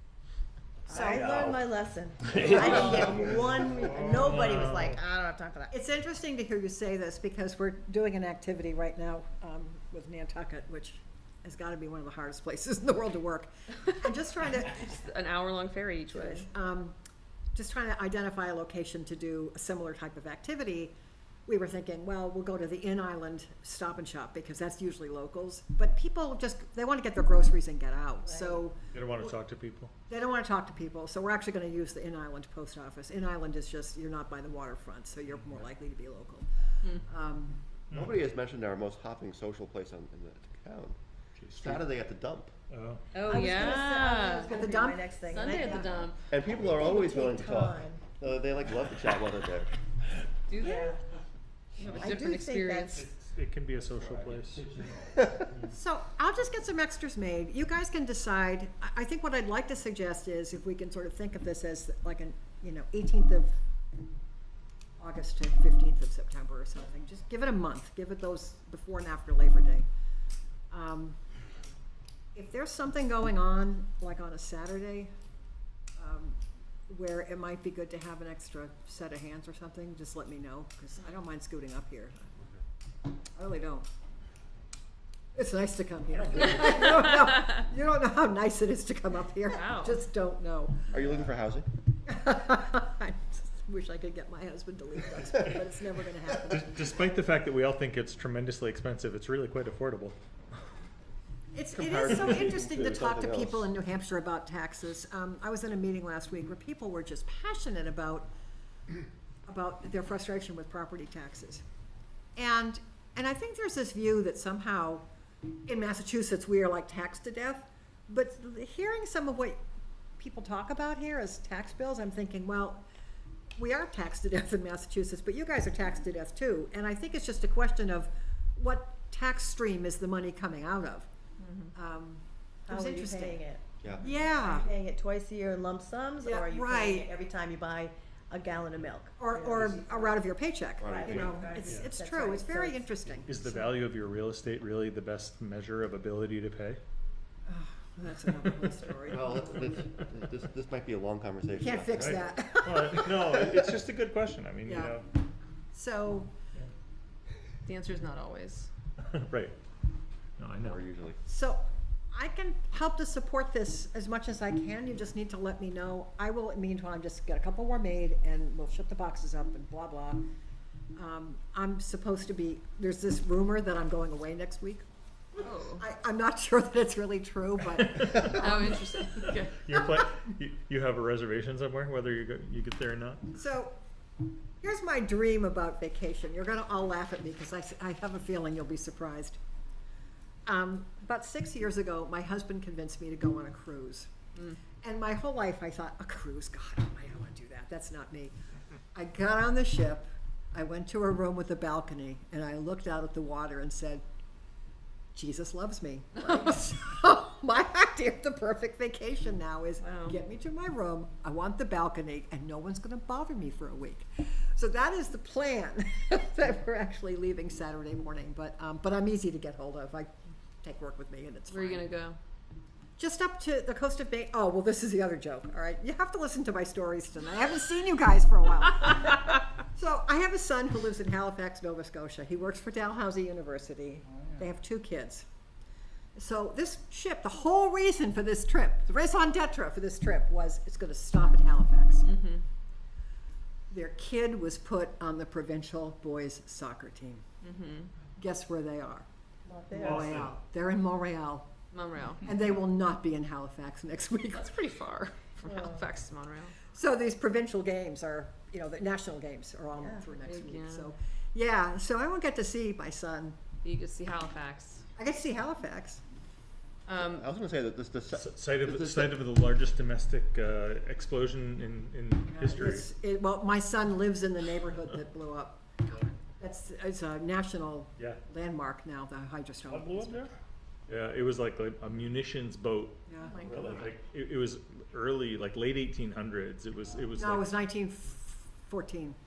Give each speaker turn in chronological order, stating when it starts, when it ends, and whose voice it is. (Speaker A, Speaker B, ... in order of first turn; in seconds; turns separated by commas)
Speaker A: 0.9-5.7, Speaker B: 0.9-1.4, Speaker C: 1.0-1.5, Speaker C: 2.3-5.0, Speaker B: 2.4-3.2, Speaker D: 2.5-3.0, Speaker B: 5.7-14.9, Speaker E: 14.7-16.5, Speaker B: 16.1-16.9, Speaker B: 17.5-20.9, Speaker B: 21.5-29.4, Speaker A: 28.2-28.6, Speaker C: 28.9-29.9, Speaker B: 30.1-36.5, Speaker B: 37.0-37.6, Speaker C: 37.9-38.3, Speaker D: 37.9-41.0, Speaker C: 41.4-41.8, Speaker D: 41.6-42.5, Speaker C: 42.7-43.0, Speaker E: 43.1-44.5, Speaker A: 43.2-45.9, Speaker B: 44.5-45.8, Speaker E: 45.3-46.2, Speaker D: 46.3-49.7, Speaker A: 46.5-48.0, Speaker E: 50.5-50.9, Speaker A: 50.6-51.0, Speaker C: 51.8-52.1, Speaker E: 51.9-53.0, Speaker A: 52.0-53.0, Speaker C: 53.0-54.8, Speaker B: 55.7-63.5, Speaker B: 65.0-69.9, Speaker B: 70.7-71.2, Speaker B: 72.3-75.1, Speaker B: 76.0-82.2, Speaker B: 83.3-83.9, Speaker B: 85.3-90.9, Speaker E: 89.5-90.0, Speaker D: 90.9-91.7, Speaker B: 92.0-96.8, Speaker C: 96.5-100.2, Speaker B: 101.5-108.3, Speaker D: 101.7-103.7, Speaker B: 109.5-111.6, Speaker B: 112.3-115.0, Speaker B: 115.7-119.6, Speaker B: 120.2-122.8, Speaker B: 123.6-131.1, Speaker A: 131.4-131.7, Speaker B: 131.7-133.4, Speaker A: 132.7-140.2, Speaker B: 134.0-134.7, Speaker B: 136.2-137.1, Speaker B: 139.2-143.3, Speaker D: 140.8-141.4, Speaker A: 140.8-142.9, Speaker C: 143.2-146.8, Speaker B: 147.5-149.7, Speaker D: 149.1-152.2, Speaker B: 151.6-153.5, Speaker C: 151.9-155.1, Speaker B: 154.7-155.0, Speaker B: 155.7-156.3, Speaker E: 157.7-158.7, Speaker C: 159.0-159.5, Speaker C: 160.4-160.8, Speaker D: 160.6-161.2, Speaker B: 161.3-170.3, Speaker B: 170.9-174.8, Speaker E: 175.3-175.8, Speaker B: 175.7-178.8, Speaker C: 177.8-178.3, Speaker E: 178.1-179.7, Speaker C: 179.6-183.3, Speaker B: 183.3-183.8, Speaker B: 184.6-189.4, Speaker B: 190.4-194.1, Speaker B: 194.8-198.3, Speaker B: 198.9-204.0, Speaker B: 205.1-221.9, Speaker E: 209.8-210.2, Speaker E: 221.5-222.2, Speaker B: 223.0-235.2, Speaker B: 236.2-242.1, Speaker E: 242.0-242.4, Speaker B: 243.7-247.2, Speaker E: 247.4-247.9, Speaker B: 248.2-249.1, Speaker A: 249.4-250.3, Speaker B: 249.8-251.5, Speaker C: 249.8-250.3, Speaker E: 251.7-252.2, Speaker B: 252.2-254.5, Speaker E: 254.3-256.5, Speaker A: 255.4-255.8, Speaker B: 256.7-263.4, Speaker A: 259.8-260.0, Speaker E: 260.2-260.9, Speaker E: 263.6-264.8, Speaker B: 265.0-266.0, Speaker E: 266.9-267.3, Speaker D: 267.0-269.1, Speaker C: 268.1-272.8, Speaker B: 272.3-280.3, Speaker C: 279.7-280.3, Speaker C: 280.9-287.5, Speaker B: 283.1-283.4, Speaker E: 283.2-283.8, Speaker B: 287.1-289.2